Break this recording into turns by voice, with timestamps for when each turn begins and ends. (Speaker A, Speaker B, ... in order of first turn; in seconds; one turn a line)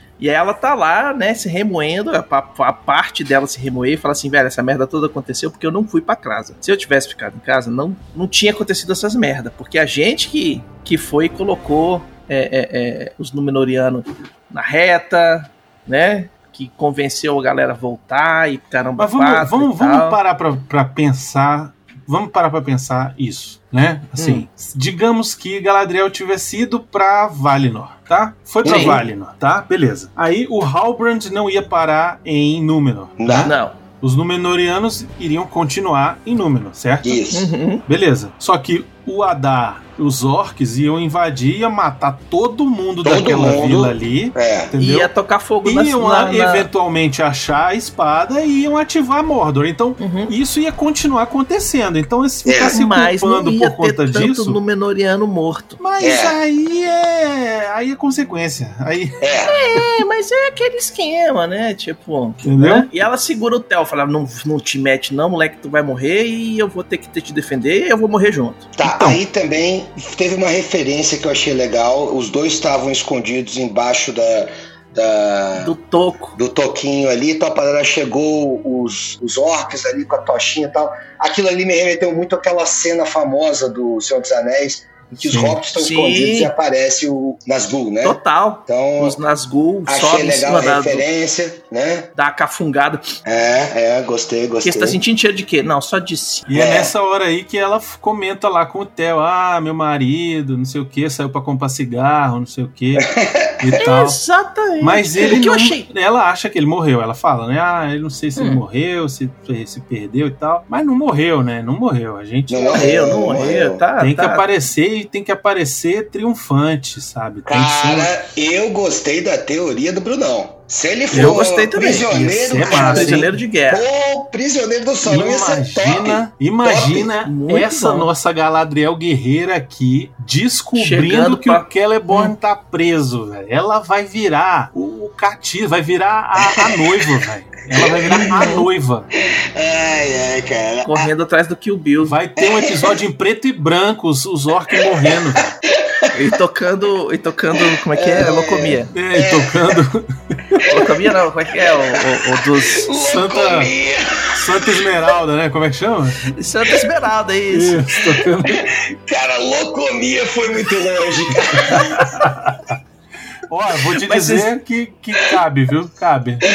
Speaker A: 0.2-20.2
Speaker B: 19.0-37.2
Speaker A: 24.2-24.4
Speaker C: 28.6-29.0
Speaker A: 28.6-29.0
Speaker C: 33.2-33.5
Speaker A: 33.4-33.8
Speaker C: 37.0-37.5
Speaker A: 37.3-37.9
Speaker B: 37.9-45.1
Speaker C: 43.0-44.7
Speaker A: 44.8-46.7
Speaker B: 45.6-54.6
Speaker A: 50.0-50.3
Speaker C: 52.5-52.8
Speaker A: 52.7-55.8
Speaker B: 55.8-59.2
Speaker C: 56.0-56.4
Speaker C: 59.2-59.5
Speaker A: 59.5-68.7
Speaker B: 62.4-62.9
Speaker C: 68.8-75.7
Speaker B: 68.8-69.2
Speaker A: 75.6-76.4
Speaker C: 76.4-89.2
Speaker B: 85.2-85.6
Speaker A: 85.8-86.5
Speaker A: 88.0-91.1
Speaker C: 89.9-92.1
Speaker A: 92.2-93.1
Speaker C: 93.3-95.0
Speaker A: 94.6-96.5
Speaker B: 96.5-104.2
Speaker C: 96.5-96.9
Speaker C: 103.0-103.8
Speaker A: 103.8-105.9
Speaker B: 104.8-112.9
Speaker A: 108.4-108.6
Speaker C: 112.5-113.8
Speaker A: 112.7-114.5
Speaker B: 114.0-118.1
Speaker C: 117.5-127.1
Speaker B: 121.1-123.3
Speaker A: 121.1-122.1
Speaker A: 122.7-123.9
Speaker B: 125.0-139.1
Speaker A: 127.2-128.1
Speaker A: 130.8-132.3
Speaker C: 136.4-137.1
Speaker C: 137.7-138.3
Speaker A: 138.1-138.7
Speaker C: 139.5-141.1
Speaker A: 140.8-142.2
Speaker B: 142.0-145.5
Speaker C: 142.4-143.0
Speaker C: 144.7-146.1
Speaker A: 146.1-148.9
Speaker C: 147.6-149.8
Speaker B: 148.9-150.8
Speaker A: 150.7-152.9
Speaker C: 151.5-154.9
Speaker B: 153.0-153.7
Speaker B: 154.3-156.3
Speaker A: 156.3-158.0
Speaker B: 157.5-158.7
Speaker C: 158.5-162.0
Speaker B: 161.5-162.8
Speaker B: 163.5-166.4
Speaker A: 164.0-164.5